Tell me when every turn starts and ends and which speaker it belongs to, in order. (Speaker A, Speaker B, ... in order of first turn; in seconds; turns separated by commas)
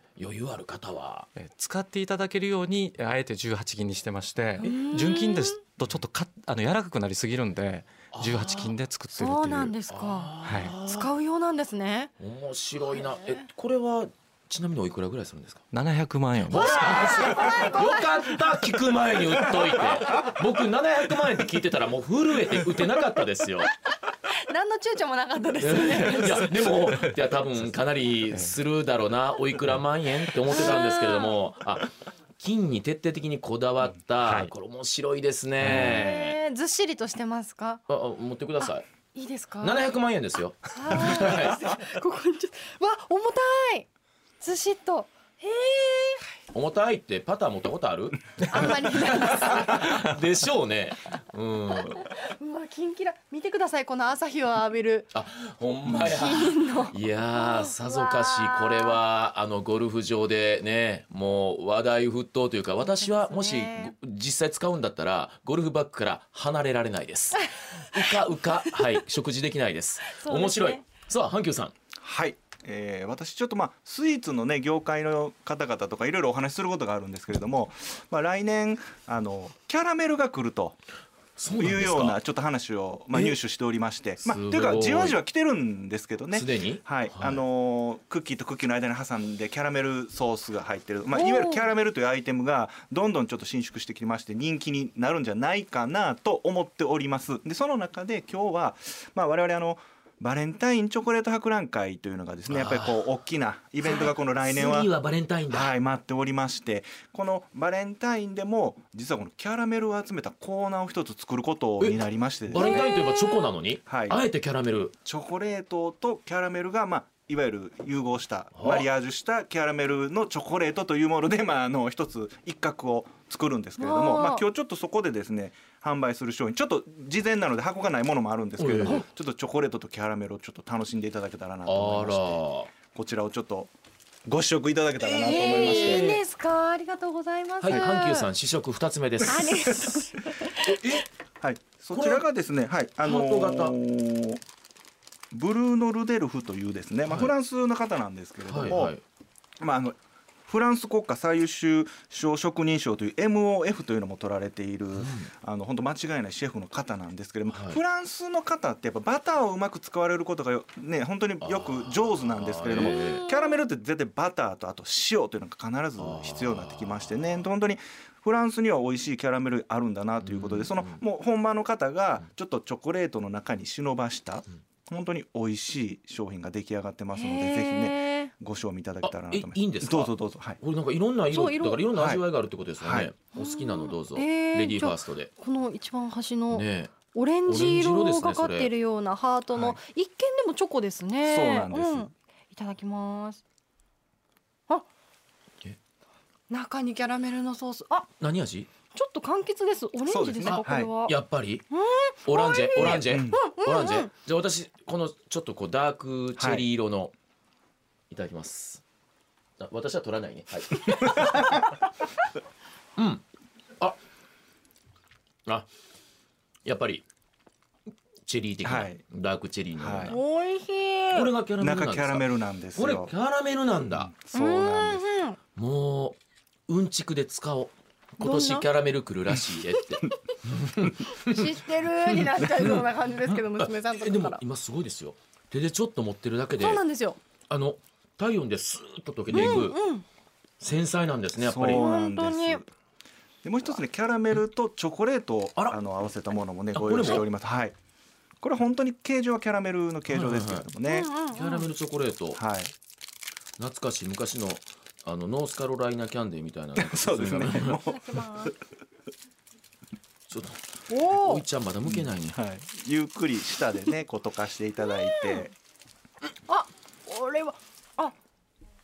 Speaker A: 0.2-1.3, Speaker B: 1.4-9.7, Speaker C: 4.6-5.6, Speaker A: 8.1-8.7, Speaker C: 9.1-12.1, Speaker A: 9.9-11.1, Speaker B: 10.4-10.7, Speaker A: 12.2-15.6, Speaker C: 12.9-13.4, Speaker B: 15.7-17.0, Speaker A: 16.5-23.7, Speaker C: 16.5-18.4, Speaker C: 24.3-26.7, Speaker A: 25.6-36.4, Speaker B: 26.1-27.3, Speaker C: 30.4-31.4, Speaker B: 34.2-34.5, Speaker B: 35.6-36.0, Speaker C: 35.7-37.8, Speaker A: 37.9-38.9, Speaker C: 38.6-39.9, Speaker A: 39.6-41.6, Speaker C: 40.7-43.9, Speaker C: 44.4-46.3, Speaker A: 46.5-52.1, Speaker C: 48.5-50.1, Speaker C: 51.9-55.1, Speaker A: 55.1-71.7, Speaker C: 55.9-59.0, Speaker C: 62.8-63.9, Speaker C: 70.1-70.8, Speaker D: 72.0-80.8, Speaker A: 81.4-82.2, Speaker D: 81.6-104.9, Speaker A: 84.2-85.2, Speaker A: 86.3-87.4, Speaker C: 91.1-91.6, Speaker A: 102.5-103.0, Speaker A: 103.9-105.7, Speaker D: 105.5-112.9, Speaker A: 111.8-114.9, Speaker C: 112.5-113.5, Speaker D: 113.9-114.2, Speaker D: 115.0-133.7, Speaker A: 118.5-118.9, Speaker C: 123.8-124.4, Speaker A: 128.6-129.0, Speaker A: 131.7-132.7, Speaker D: 134.2-136.1, Speaker C: 135.0-138.3, Speaker A: 135.2-136.2, Speaker A: 137.6-141.0, Speaker C: 139.2-140.9, Speaker D: 141.4-144.4, Speaker A: 141.9-142.2, Speaker A: 143.0-143.8, Speaker D: 145.3-148.9, Speaker A: 148.5-149.0, Speaker D: 149.6-180.6, Speaker A: 155.0-155.3, Speaker A: 157.5-157.8, Speaker A: 161.4-163.2, Speaker C: 162.7-163.6, Speaker A: 166.0-167.4, Speaker A: 170.2-171.0, Speaker C: 177.1-178.3, Speaker A: 179.0-185.3, Speaker C: 181.3-181.8, Speaker D: 181.9-182.2, Speaker D: 182.8-183.1, Speaker C: 183.3-193.4, Speaker A: 186.5-186.9, Speaker A: 187.4-188.7, Speaker D: 189.5-189.8, Speaker D: 191.2-192.1, Speaker C: 196.5-198.1, Speaker A: 198.2-198.7, Speaker C: 198.9-201.2, Speaker D: 200.1-200.9, Speaker A: 200.4-201.7, Speaker C: 201.7-204.1, Speaker A: 202.2-207.1, Speaker D: 202.8-203.4, Speaker D: 206.4-206.6, Speaker A: 208.1-208.8, Speaker A: 209.6-211.6, Speaker A: 213.0-213.2, Speaker A: 216.6-217.0, Speaker A: 218.2-220.2, Speaker D: 218.6-219.0, Speaker D: 219.8-220.2, Speaker C: 220.1-221.3, Speaker A: 221.1-224.1, Speaker D: 221.6-223.1, Speaker D: 224.0-225.1, Speaker C: 224.3-225.4, Speaker A: 225.6-226.2, Speaker A: 226.7-236.8, Speaker C: 228.2-228.7, Speaker C: 231.1-234.4, Speaker C: 236.6-237.2, Speaker A: 237.5-239.8, Speaker C: 239.3-240.0, Speaker A: 240.6-241.8, Speaker D: 241.3-242.7, Speaker C: 241.7-242.6, Speaker D: 243.4-247.8, Speaker A: 246.7-247.3, Speaker D: 248.4-251.1, Speaker A: 250.1-250.7, Speaker C: 250.9-251.7, Speaker A: 251.3-252.4, Speaker D: 252.3-252.7, Speaker A: 253.6-257.8, Speaker D: 256.7-258.5, Speaker C: 257.9-258.5, Speaker A: 260.3-262.4, Speaker C: 260.9-261.4, Speaker D: 261.9-265.5, Speaker C: 265.2-265.4, Speaker C: 266.5-268.1